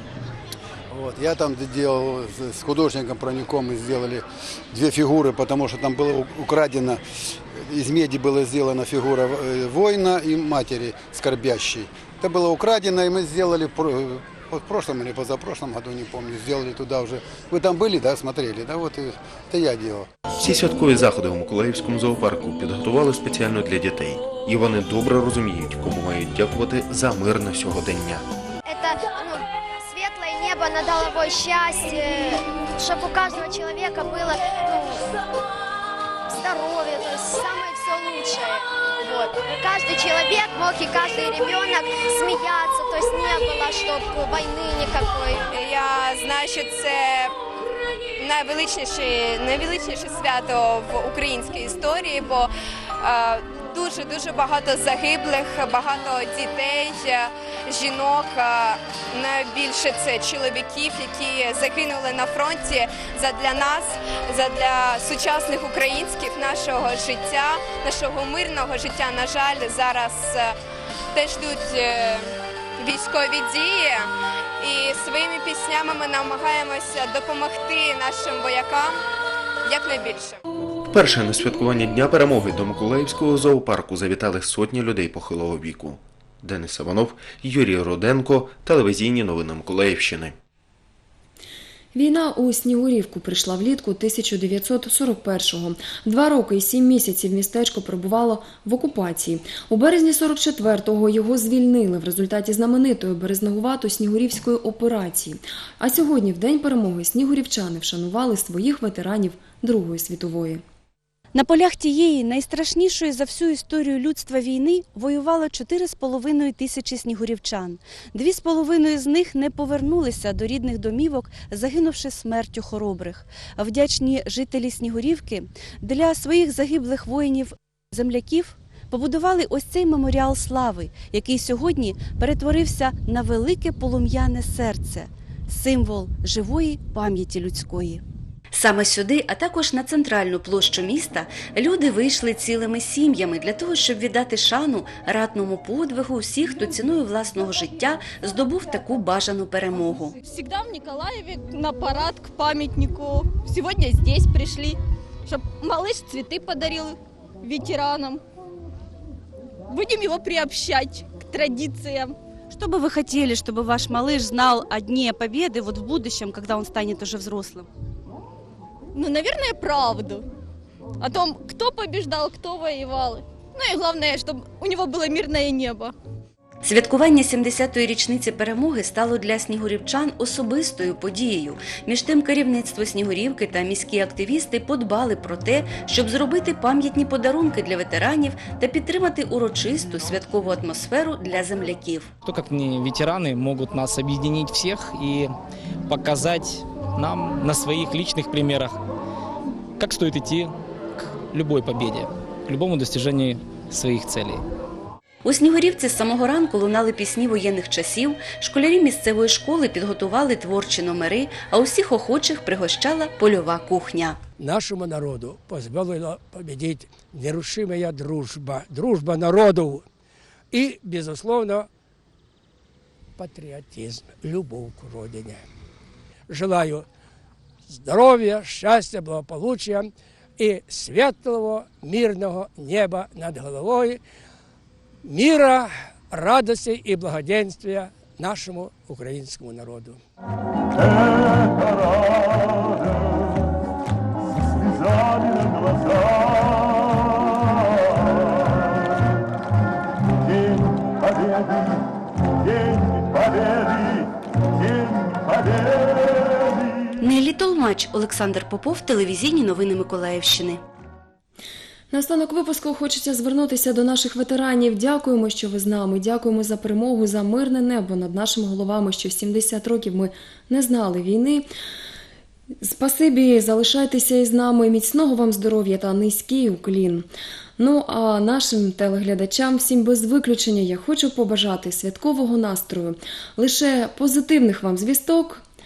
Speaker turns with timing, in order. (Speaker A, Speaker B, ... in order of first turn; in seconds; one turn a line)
Speaker A: 0.9-20.1
Speaker B: 20.4-28.2
Speaker C: 28.6-35.0
Speaker C: 36.3-45.5
Speaker D: 45.5-47.3
Speaker D: 48.2-52.5
Speaker D: 53.0-70.5
Speaker D: 71.1-74.1
Speaker D: 74.6-79.0
Speaker D: 79.7-80.4
Speaker B: 80.9-90.3
Speaker E: 91.9-110.6
Speaker F: 111.3-150.2
Speaker G: 150.2-158.2
Speaker G: 159.7-162.2
Speaker F: 162.5-167.7
Speaker G: 168.9-170.2
Speaker G: 171.0-175.9
Speaker F: 176.6-192.1
Speaker H: 192.3-195.2
Speaker H: 195.9-198.7
Speaker H: 199.8-200.5
Speaker H: 201.3-204.4
Speaker F: 205.2-214.2
Speaker I: 214.4-219.8
Speaker I: 220.5-221.7
Speaker I: 223.2-225.4
Speaker I: 226.3-226.8
Speaker I: 227.7-234.0
Speaker I: 235.1-240.0
Speaker F: 257.0-260.6
Speaker E: 261.9-271.4
Speaker E: 272.6-277.1
Speaker E: 277.6-285.4